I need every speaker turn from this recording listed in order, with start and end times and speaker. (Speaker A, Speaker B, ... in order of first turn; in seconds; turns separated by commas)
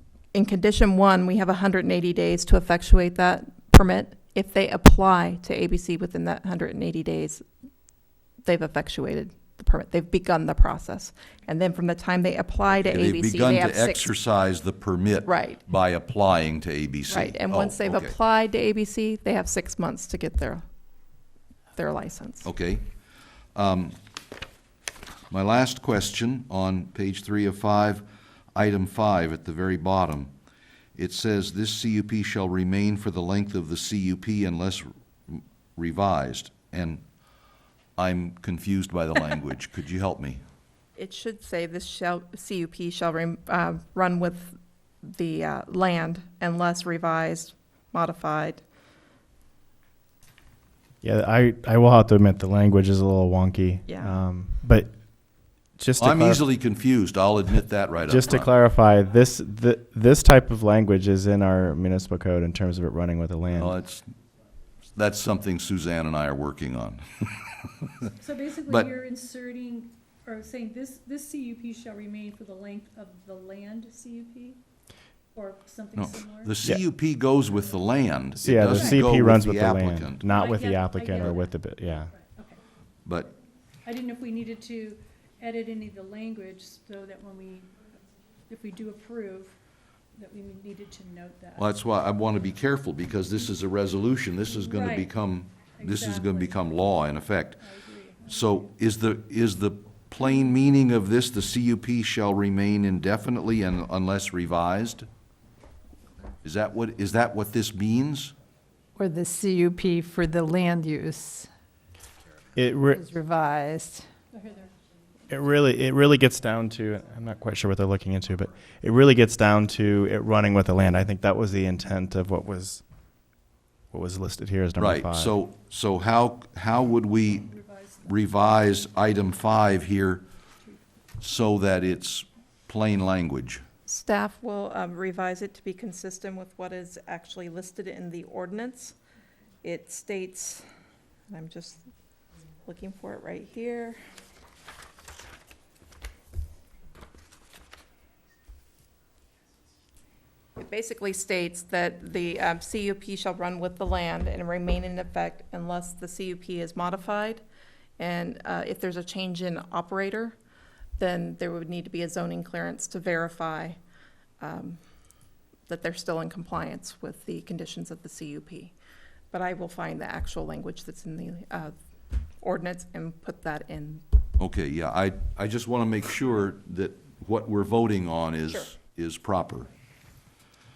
Speaker A: 0.3-7.5, Speaker A: 8.5-14.1, Speaker B: 12.9-18.1, Speaker A: 15.3-15.6, Speaker A: 17.1-20.6, Speaker A: 21.8-22.5, Speaker B: 22.4-22.9, Speaker B: 23.6-23.9, Speaker B: 25.3-28.0, Speaker B: 28.6-30.3, Speaker B: 31.0-37.0, Speaker B: 38.0-40.4, Speaker A: 41.0-48.6, Speaker C: 51.0-54.9, Speaker A: 53.9-54.2, Speaker C: 55.8-56.5, Speaker B: 56.0-58.5, Speaker C: 58.1-63.8, Speaker B: 63.6-64.0, Speaker B: 65.0-68.1, Speaker D: 68.2-74.6, Speaker D: 75.3-76.6, Speaker B: 76.0-80.2, Speaker C: 78.4-82.1, Speaker D: 80.3-82.6, Speaker B: 83.0-83.3, Speaker D: 83.8-87.9, Speaker D: 88.5-89.6, Speaker D: 90.2-91.7, Speaker B: 91.6-97.6, Speaker D: 94.5-95.1, Speaker D: 95.7-97.0, Speaker D: 97.6-98.7, Speaker B: 98.3-105.1, Speaker B: 106.4-108.3, Speaker E: 109.0-111.5, Speaker C: 112.6-113.0, Speaker E: 112.9-114.1, Speaker D: 114.3-114.7, Speaker C: 115.3-122.8, Speaker C: 123.9-125.3, Speaker B: 124.8-127.5, Speaker D: 127.5-128.2, Speaker B: 128.0-130.3, Speaker B: 131.2-133.6, Speaker A: 133.9-138.9, Speaker A: 139.6-140.7, Speaker A: 141.3-141.8, Speaker A: 142.6-144.0, Speaker A: 150.6-157.4, Speaker A: 158.0-160.4, Speaker A: 161.0-163.8, Speaker A: 164.4-164.8, Speaker A: 165.7-168.7, Speaker A: 169.3-171.8, Speaker A: 172.4-174.0, Speaker B: 174.4-179.7